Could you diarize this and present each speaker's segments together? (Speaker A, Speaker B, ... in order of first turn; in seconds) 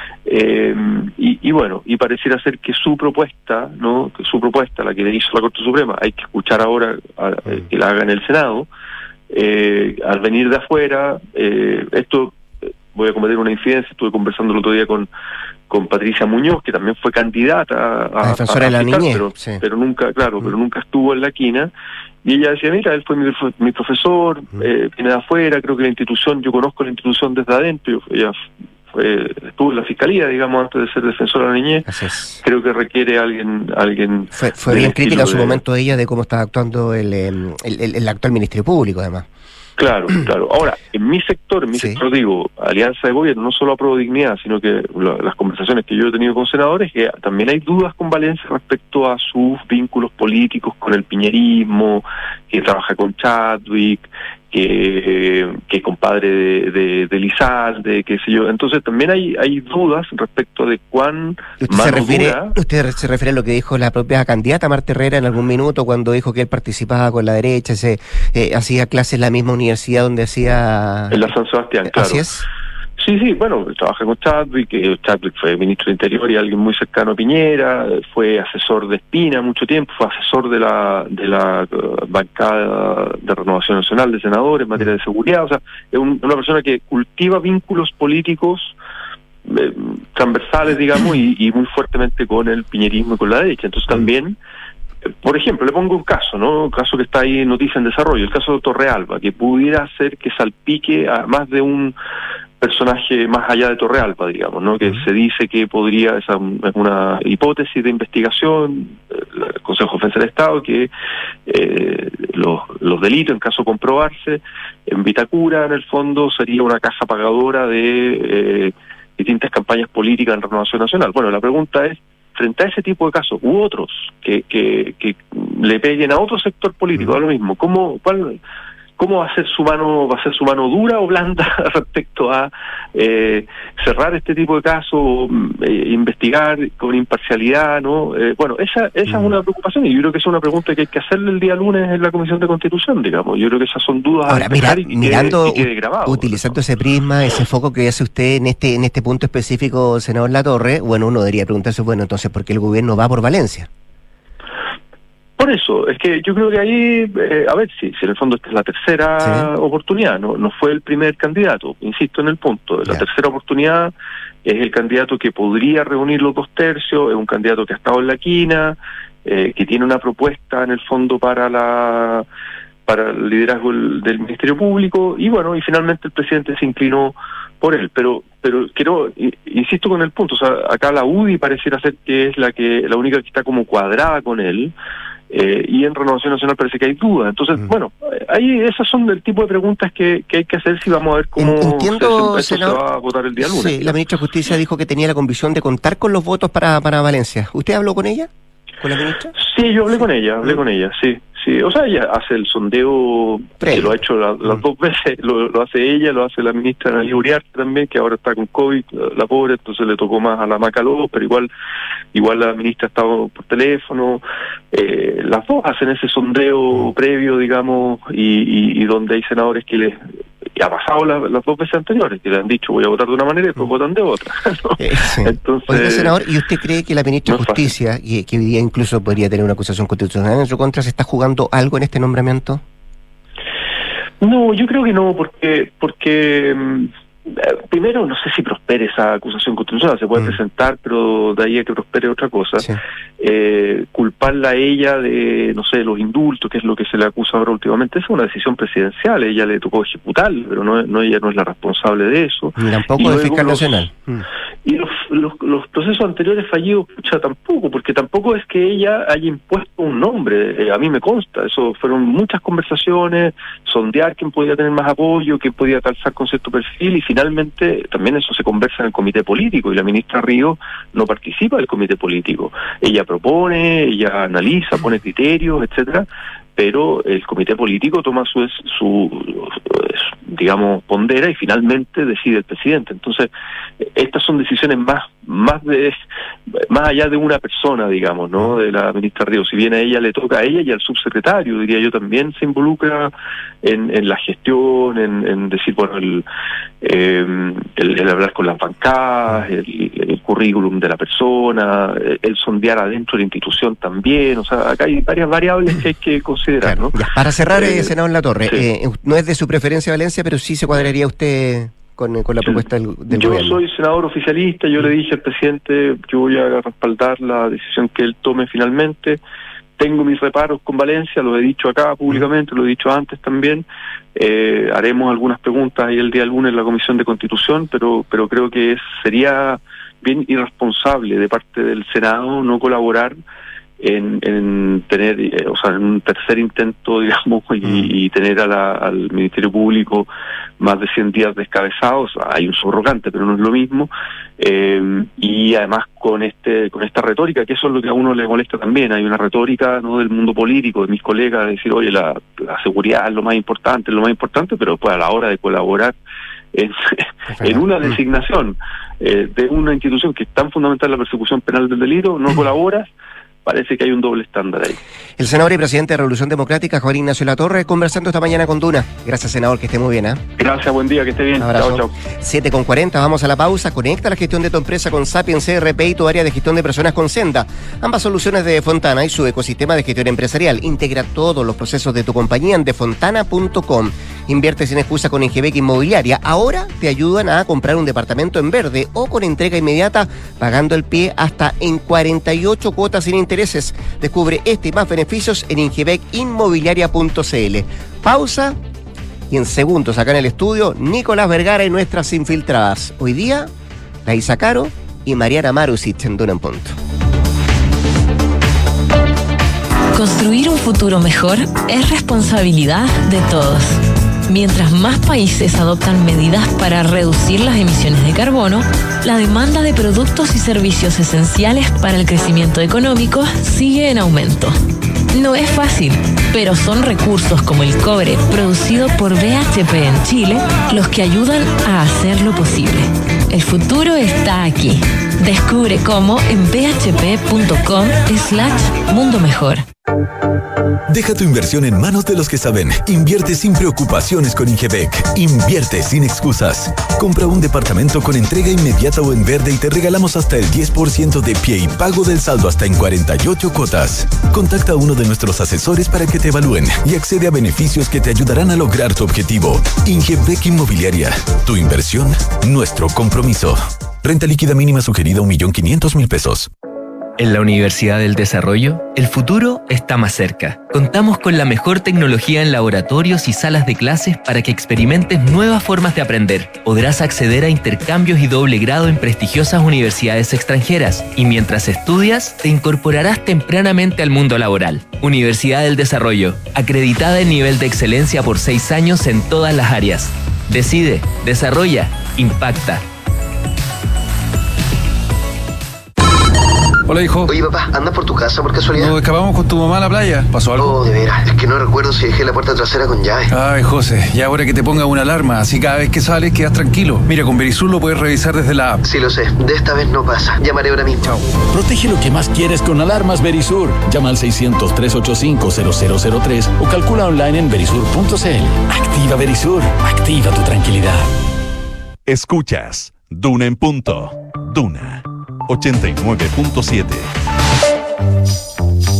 Speaker A: 0.2-8.7, 9.3-12.4, 12.9-15.1, 15.7-21.7, 22.2-28.3, 28.9-31.9, 32.4-35.6, 39.8-62.5, 71.1-72.2, 73.0-88.7, 89.5-94.3, 95.2-101.9, 102.6-110.9, 111.5-128.4, 129.0-146.6, 155.4-163.9, 164.4-172.2, 172.8-184.7, 185.3-194.0, 199.4-211.5, 212.1-220.0, 220.6-226.1, 227.3-227.7, 234.2-242.7, 243.2-253.9, 254.6-283.3, 283.8-285.9, 286.7-293.1, 293.6-296.2, 296.8-306.9, 307.5-307.9, 313.1-319.2, 319.8-333.2, 333.8-340.1, 340.6-355.9, 356.5-362.9, 363.4-364.8, 370.4-371.9
Speaker B: 18.2-19.6, 31.9-32.4, 34.3-39.2, 41.7-42.0, 61.6-71.3, 71.9-72.5, 139.1-139.3, 144.3-153.7, 159.2-159.5, 191.4-192.8, 193.4-198.3, 198.8-199.3, 203.6-204.6, 224.8-232.6, 252.6-254.2, 306.6-313.6, 337.6-337.9, 357.3-358.0, 365.2-370.2, 371.4-398.6, 399.3-403.5, 404.0-406.8
Speaker C: 409.9-424.6, 425.1-439.6
Speaker D: 440.9-466.5
Speaker E: 467.2-492.8
Speaker F: 496.9-497.3, 498.7-500.8, 503.3-508.8
Speaker G: 497.3-498.9, 500.6-503.3, 508.8-511.1
Speaker H: 511.5-521.1
Speaker I: 522.1-527.1